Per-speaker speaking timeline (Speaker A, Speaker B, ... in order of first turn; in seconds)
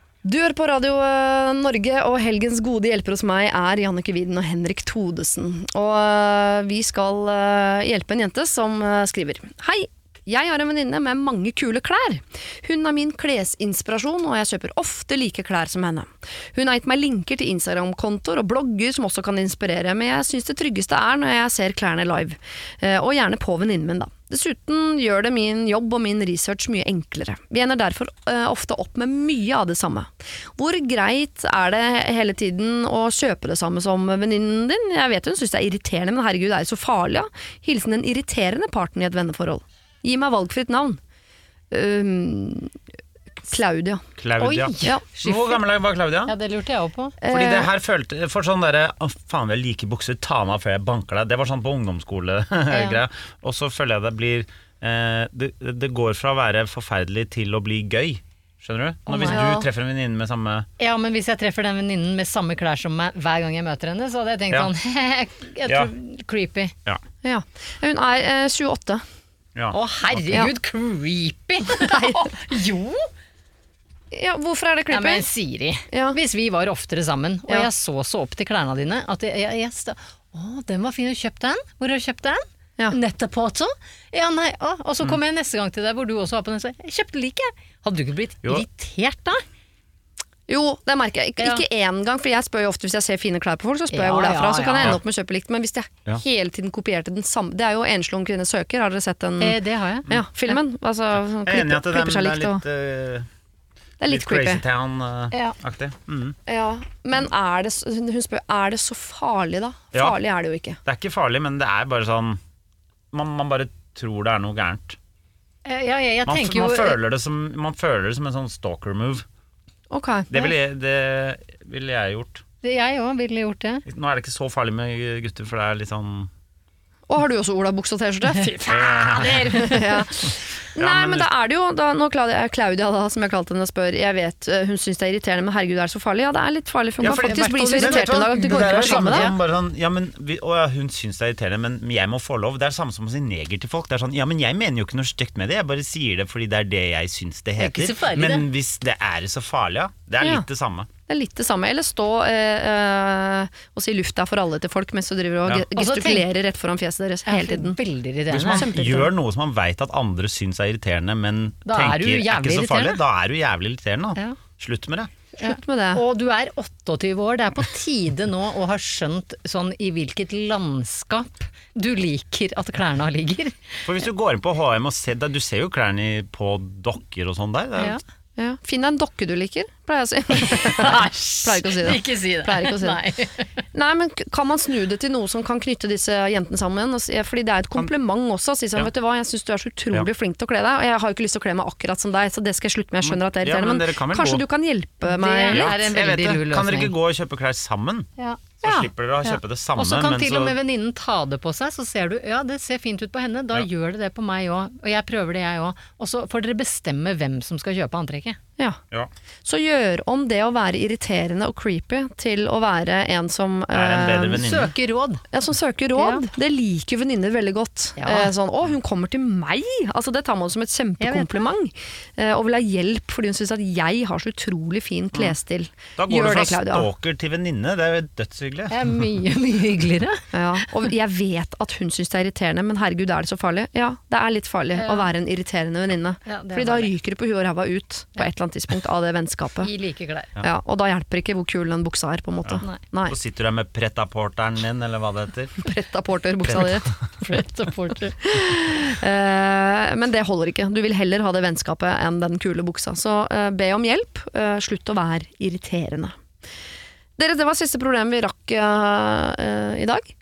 Speaker A: 0.2-41.0, 41.7-42.8, 43.5-44.0, 47.2-47.7, 59.3-59.7, 67.2-69.0, 71.7-72.3, 74.1-75.2, 75.9-76.2, 90.5-102.6, 104.0-104.6, 106.5-110.8, 119.9-120.5, 127.1-128.6, 129.5-139.3, 151.1-157.8, 158.3-159.1, 165.4-166.0, 178.4-183.0, 183.7-195.8, 209.4-214.4, 215.3-226.9, 230.3-239.7, 240.4-243.1, 245.6-246.9, 248.2-256.1, 257.2-260.1
Speaker B: 44.1-46.3, 47.3-60.7, 101.4-103.3, 104.1-106.4, 110.8-112.4, 113.1-115.0, 116.2-119.2, 120.3-122.4, 123.8-126.3, 128.6-129.9, 130.7-131.3, 137.0-150.9, 158.3-165.1, 173.8-178.0, 193.0-194.4, 195.5-198.1, 198.6-200.5, 213.7-214.7, 225.9-228.8, 242.4-245.6
Speaker C: 44.4-45.6, 46.2-47.2, 52.7-53.0, 59.1-59.5, 60.8-66.7, 69.7-73.1, 74.9-89.4, 91.4-91.6, 93.9-95.0, 99.4-100.6, 115.6-117.0, 122.6-123.8, 128.4-130.0, 137.1-139.3, 147.6-148.5, 155.8-156.3, 157.3-159.0, 161.7-163.0, 165.4-173.8, 180.5-183.5, 195.0-196.9, 198.2-198.9, 199.8-208.4, 214.4-215.2, 215.9-216.3, 218.0-218.3, 221.0-221.4, 228.7-230.2, 234.8-235.1, 236.2-236.9, 239.6-240.3, 247.2-248.2